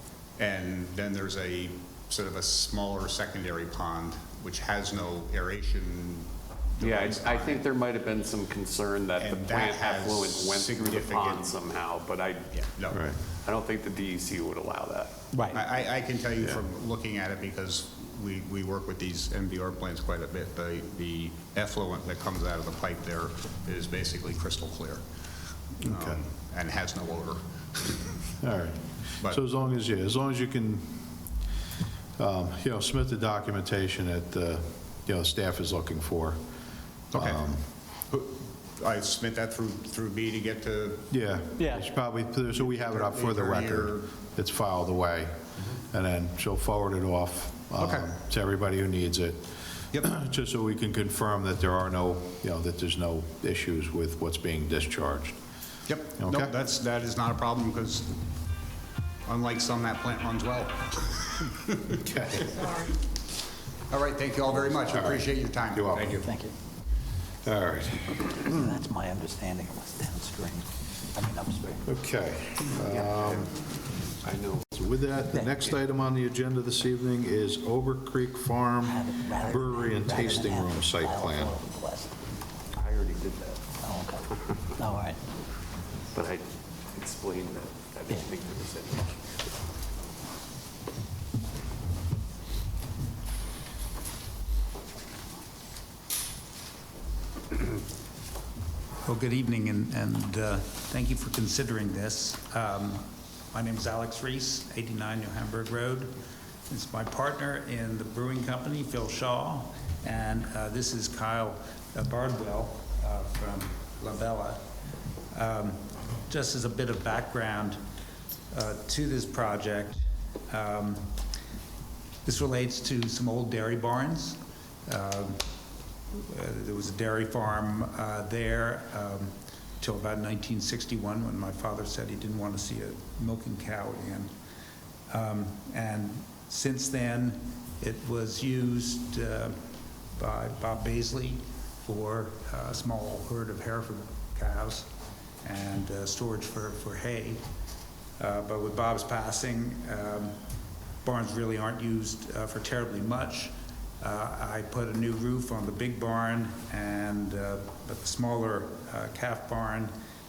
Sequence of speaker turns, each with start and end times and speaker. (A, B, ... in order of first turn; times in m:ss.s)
0:00.4-0:07.7 A
0:06.8-0:12.6 B
0:09.2-0:11.5 A
0:12.5-0:13.0 A
0:12.9-0:13.2 C
0:13.4-0:15.2 B
0:15.3-0:15.6 D
0:15.5-0:25.0 A
0:25.7-0:28.2 A
0:25.8-0:26.2 C
0:28.4-0:31.2 C
0:32.2-0:36.4 C
0:37.1-0:37.4 A
0:37.1-0:37.6 C
0:38.1-0:41.1 A
0:41.1-0:55.4 C
0:41.6-0:41.8 D
0:42.6-0:44.1 A
0:47.8-0:48.1 A
0:55.9-0:58.2 A
0:56.2-0:56.5 C
0:59.3-1:02.0 A
1:01.9-1:02.6 C
1:02.5-1:02.9 A
1:03.9-1:06.3 A
1:04.9-1:06.2 C
1:06.2-1:06.5 D
1:07.4-1:08.3 C
1:08.4-1:11.8 D
1:11.8-1:13.5 C
1:13.1-1:13.4 B
1:14.2-1:14.7 B
1:14.7-1:21.5 C
1:15.3-1:15.7 D
1:18.8-1:22.1 D
1:22.7-1:23.6 B
1:23.8-1:25.2 D
1:26.1-1:29.4 B
1:39.0-1:46.1 E
1:46.7-1:54.6 E
1:55.3-1:57.8 E
1:58.5-2:01.0 E
2:02.2-2:05.4 E
2:06.1-2:14.3 E
2:15.1-2:19.5 E
2:20.2-2:24.9 E
2:25.4-2:27.4 E
2:28.2-2:30.3 E
2:31.0-2:39.9 E